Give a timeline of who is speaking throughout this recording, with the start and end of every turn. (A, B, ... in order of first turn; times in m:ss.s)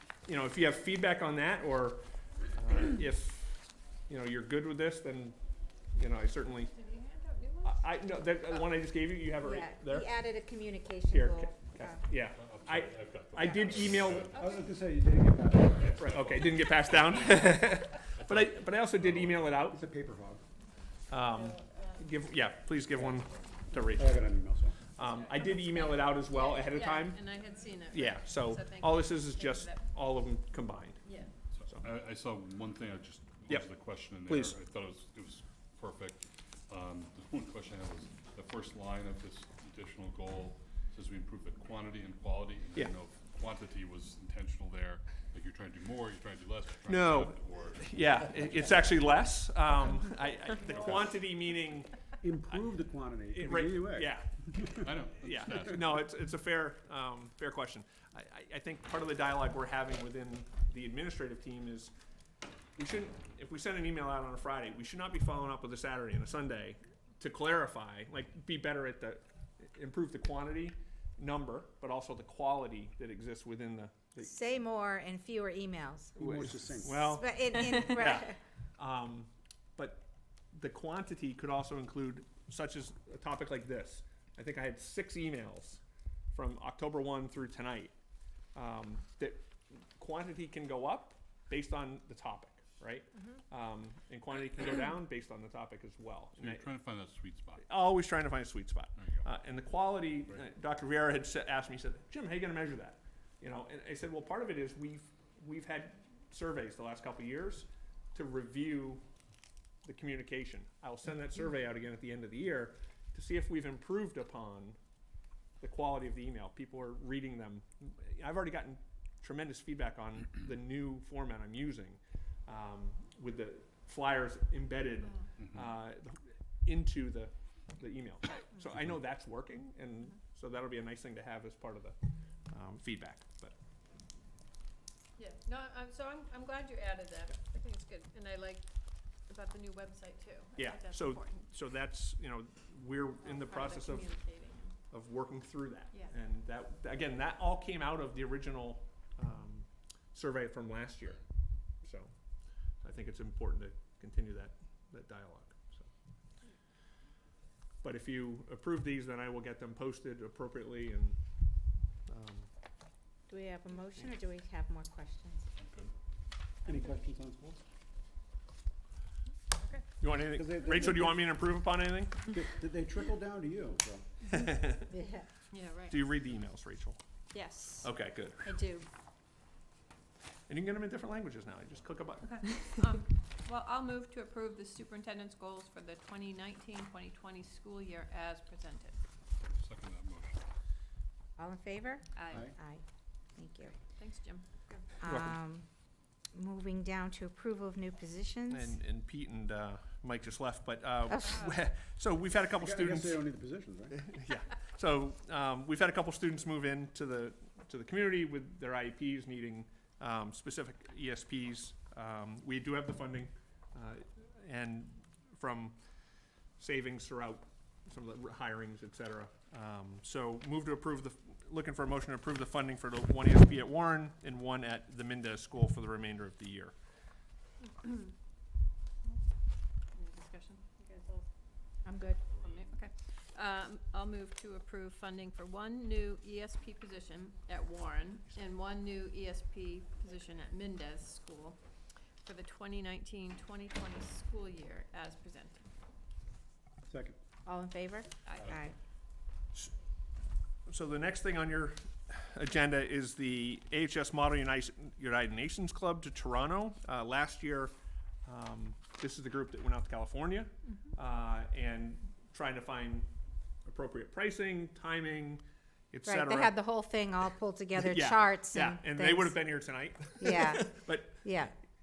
0:00.2-0:05.4 A
0:05.9-0:06.7 A
0:06.6-0:07.8 B
0:07.6-0:10.1 A
0:09.4-0:12.0 C
0:11.1-0:14.3 A
0:12.3-0:14.5 D
0:13.4-0:13.9 C
0:14.1-0:14.8 B
0:14.3-0:15.9 E
0:15.7-0:17.6 D
0:16.0-0:19.8 A
0:18.2-0:19.6 D
0:19.7-0:20.4 E
0:21.1-0:24.3 A
0:21.3-0:22.0 B
0:23.9-0:24.8 E
0:25.0-0:27.2 A
0:25.1-0:29.8 B
0:27.9-0:31.0 A
0:31.0-0:31.3 B
0:31.5-0:48.8 D
0:34.2-0:34.5 A
0:46.9-0:51.9 A
0:50.7-0:51.2 D
0:52.2-0:54.7 E
0:53.3-0:54.3 A
0:54.7-0:56.0 D
0:55.2-1:01.9 A
1:02.8-1:14.4 A
1:14.2-1:16.1 C
1:16.2-1:25.8 A
1:16.2-1:17.2 E
1:17.1-1:18.4 C
1:26.3-1:27.9 A
1:28.5-1:29.4 A
1:30.0-1:36.7 A
1:36.4-1:37.7 D
1:37.7-1:49.0 A
1:39.0-1:39.3 D
1:49.8-1:54.8 A
1:55.6-2:12.0 A
2:12.5-2:13.5 A
2:15.2-2:18.7 B
2:19.2-2:21.4 B
2:20.6-2:24.1 A
2:23.3-2:24.8 B
2:24.9-2:31.2 A
2:31.8-2:32.1 A
2:32.8-2:35.9 A
2:37.8-2:41.2 A
2:42.0-2:42.5 A
2:43.3-2:45.5 C
2:45.6-2:45.9 D
2:46.6-2:47.6 E
2:49.6-2:49.8 B
2:50.0-2:52.3 A
2:50.1-2:51.3 E
2:52.3-2:54.0 E
2:54.3-2:54.8 A
2:54.9-2:55.2 C
2:55.5-2:56.0 B
2:55.9-2:57.0 A
2:57.3-2:57.9 B
2:57.8-2:58.6 A
2:58.4-2:58.8 B
3:00.5-3:02.5 A
3:02.2-3:09.0 B
3:09.4-3:10.4 D
3:11.4-3:12.8 C
3:12.1-3:12.5 B
3:12.3-3:12.5 E
3:13.4-3:13.7 C
3:14.0-3:14.8 B
3:15.0-3:15.6 C
3:15.0-3:15.3 A
3:16.3-3:18.7 C
3:18.5-3:23.3 A
3:21.1-3:21.4 C
3:21.2-3:21.6 B
3:22.6-3:24.0 E
3:23.9-3:35.8 A
3:36.6-3:46.7 A
3:47.8-3:48.1 B
3:49.9-3:51.2 B
3:51.8-3:52.2 C
3:52.4-4:01.6 B
4:02.2-4:05.6 B
4:06.9-4:07.2 E
4:07.4-4:08.7 C
4:08.2-4:08.6 B
4:10.7-4:17.7 A
4:18.2-4:23.1 A
4:23.6-4:26.6 A
4:26.0-4:29.6 C
4:27.8-4:31.2 A
4:30.2-4:31.5 C